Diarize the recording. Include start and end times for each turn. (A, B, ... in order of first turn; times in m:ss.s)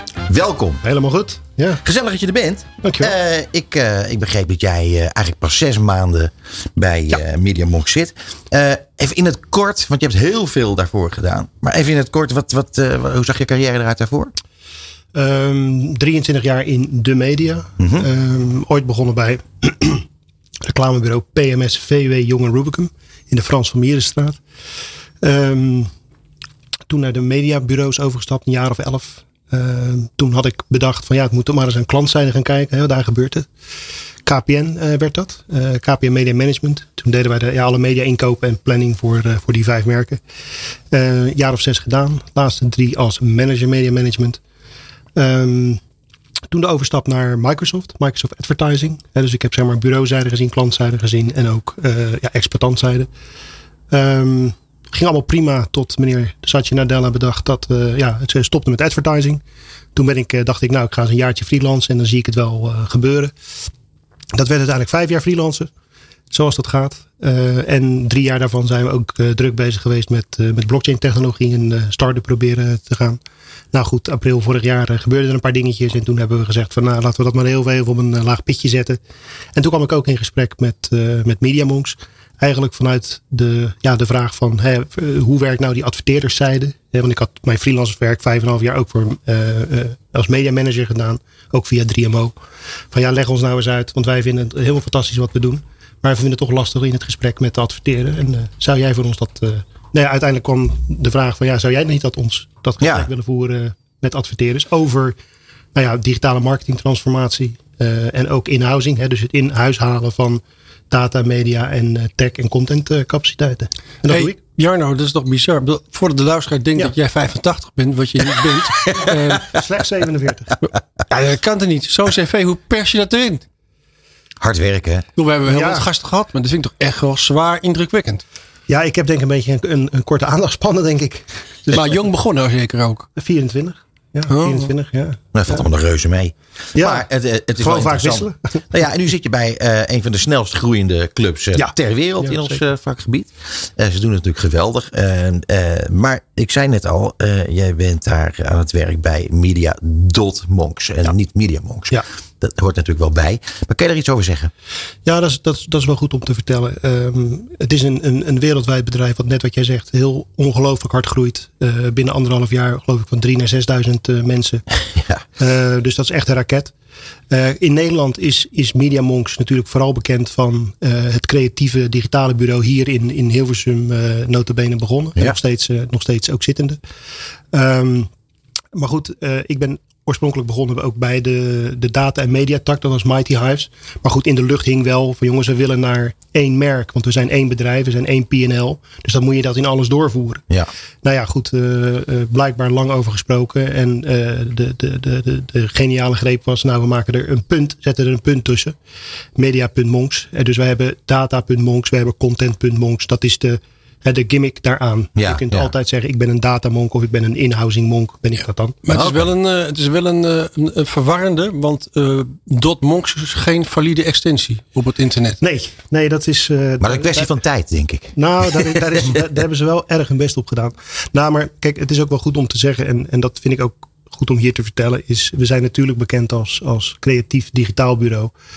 0:00.3-0:00.8 A
0:00.8-0:01.8 B
0:01.8-0:14.3 A
0:02.8-0:03.1 B
0:15.1-0:20.0 B
0:17.8-0:18.0 A
0:20.6-0:24.4 B
0:25.2-0:25.9 B
0:26.9-0:33.5 B
0:34.2-0:40.2 B
0:40.9-0:44.4 B
0:45.2-0:45.8 B
0:46.5-0:53.1 B
0:53.9-0:59.4 B
0:59.9-1:03.3 B
1:04.3-1:05.7 B
1:06.3-1:13.2 B
1:13.7-1:19.0 B
1:19.5-1:32.3 B
1:32.9-1:45.2 B
1:42.8-1:43.1 A
1:45.7-1:54.4 B
1:54.1-1:59.5 C
1:59.4-2:00.5 B
2:00.6-2:03.4 C
2:04.4-2:05.0 A
2:05.2-2:08.2 C
2:05.4-2:05.9 B
2:08.7-2:11.8 B
2:11.7-2:13.1 C
2:13.2-2:15.6 B
2:14.3-2:14.7 C
2:15.3-2:34.5 A
2:16.7-2:17.0 B
2:17.6-2:18.6 B
2:21.5-2:22.6 B
2:35.0-2:44.6 B
2:45.4-2:46.7 B
2:47.3-2:56.8 B
2:57.5-2:58.1 B
2:58.7-3:10.4 B
3:11.0-3:18.8 B
3:19.4-3:28.8 B
3:25.2-3:25.7 A
3:28.8-3:35.4 C
3:28.9-3:29.3 A
3:35.4-3:37.3 B
3:36.8-3:38.8 A
3:38.1-3:48.3 B